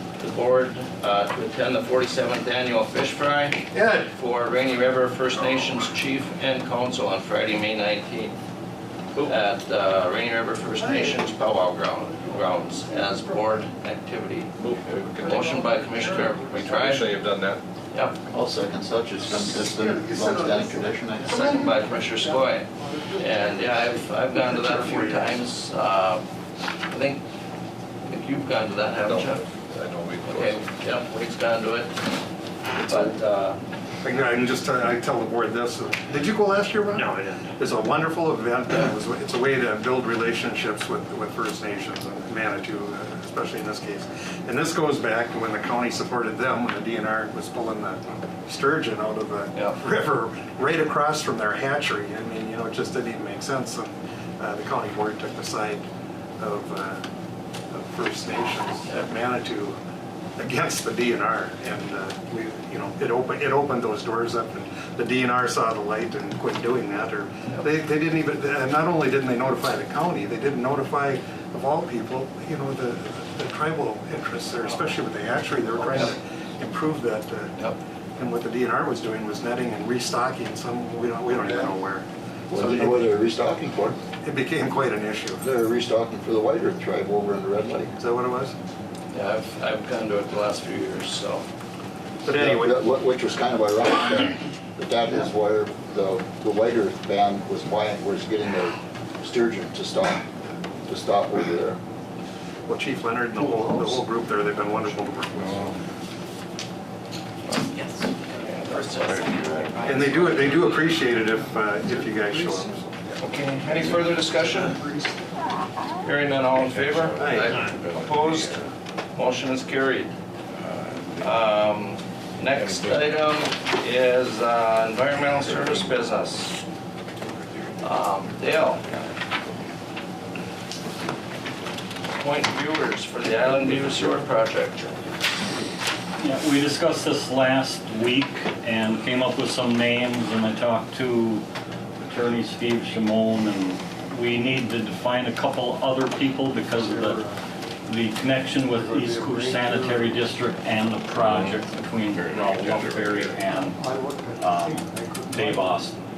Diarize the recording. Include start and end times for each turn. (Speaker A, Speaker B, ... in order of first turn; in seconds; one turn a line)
Speaker A: 0.2-8.4
Speaker B: 3.7-4.1
Speaker A: 9.2-14.5
Speaker B: 10.8-11.5
Speaker B: 12.1-13.5
Speaker C: 14.6-17.6
Speaker B: 15.2-17.0
Speaker A: 15.2-17.1
Speaker D: 18.3-21.6
Speaker B: 19.2-25.4
Speaker A: 21.3-26.2
Speaker A: 26.9-27.2
Speaker A: 28.0-29.5
Speaker C: 29.0-30.7
Speaker A: 30.2-32.0
Speaker B: 32.8-33.1
Speaker A: 32.8-33.6
Speaker B: 34.0-55.8
Speaker A: 36.9-37.5
Speaker B: 56.4-57.0
Speaker B: 57.7-59.8
Speaker B: 60.4-77.5
Speaker B: 78.2-83.0
Speaker D: 81.3-81.7
Speaker D: 82.5-84.0
Speaker B: 84.2-85.4
Speaker D: 85.4-87.9
Speaker B: 88.0-88.5
Speaker A: 89.1-91.4
Speaker B: 92.2-92.8
Speaker D: 92.3-100.2
Speaker D: 100.8-101.8
Speaker B: 102.7-105.7
Speaker C: 104.6-105.8
Speaker E: 107.7-111.1
Speaker A: 108.3-110.7
Speaker C: 109.0-110.8
Speaker B: 109.8-112.8
Speaker C: 113.1-114.2
Speaker A: 113.2-114.8
Speaker A: 116.0-120.1
Speaker C: 116.5-118.7
Speaker B: 117.2-117.5
Speaker C: 120.5-121.5
Speaker A: 121.2-126.6
Speaker C: 122.5-123.3
Speaker C: 125.4-126.1
Speaker A: 127.8-128.8
Speaker C: 128.8-129.6
Speaker A: 132.2-134.9
Speaker F: 136.2-141.4
Speaker F: 142.0-147.2
Speaker B: 146.8-147.3
Speaker F: 147.9-153.8
Speaker B: 148.7-150.2
Speaker C: 151.2-153.4
Speaker B: 153.5-155.6
Speaker F: 154.4-155.9